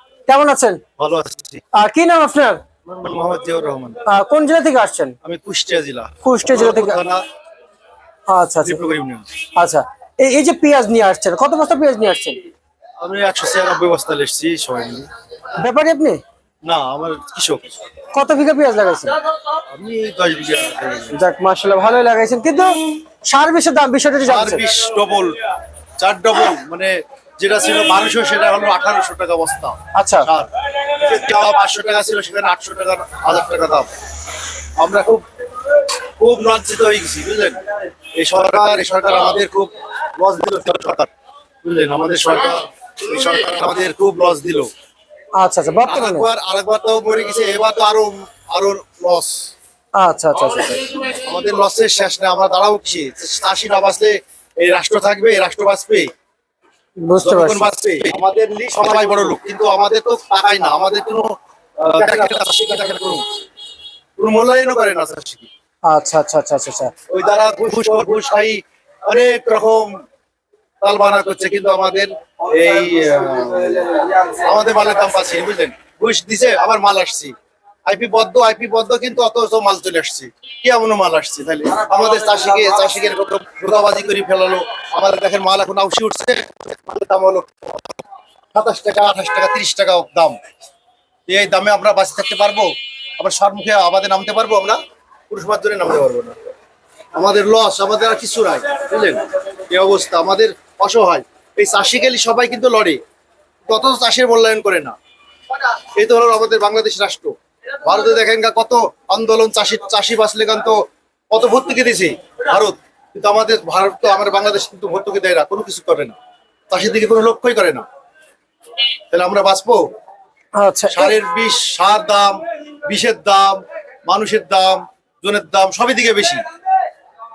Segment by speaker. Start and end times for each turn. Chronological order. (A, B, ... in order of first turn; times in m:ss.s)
0:00.3-0:00.8 A
0:01.0-0:01.6 B
0:01.7-0:02.6 A
0:02.9-0:04.0 B
0:04.1-0:05.2 A
0:05.2-0:07.2 B
0:06.2-0:07.0 A
0:08.3-0:08.8 A
0:08.6-0:09.3 B
0:09.6-0:12.4 A
0:13.0-0:15.1 B
0:15.6-0:16.2 A
0:16.6-0:17.7 B
0:18.2-0:19.2 A
0:19.7-0:21.1 B
0:21.1-0:22.7 A
0:23.3-0:24.6 A
0:24.2-0:25.4 B
0:26.0-0:33.9 B
0:30.0-0:30.3 A
0:34.8-0:35.2 B
0:36.2-0:37.6 B
0:38.2-0:41.1 B
0:41.6-0:44.7 B
0:45.4-0:46.3 A
0:45.8-0:49.5 B
0:50.0-0:51.0 A
0:51.0-0:56.1 B
0:57.0-0:57.7 A
0:57.2-1:03.2 B
1:04.2-1:05.5 B
1:05.9-1:06.9 A
1:07.1-1:09.9 B
1:10.8-1:17.3 B
1:17.9-1:28.0 B
1:28.6-1:30.4 B
1:31.3-1:36.4 B
1:37.2-1:43.0 B
1:43.7-1:45.0 B
1:46.0-1:50.8 B
1:51.3-1:56.2 B
1:56.7-1:57.8 B
1:59.1-1:59.8 B
2:00.6-2:01.2 A
2:00.9-2:06.4 B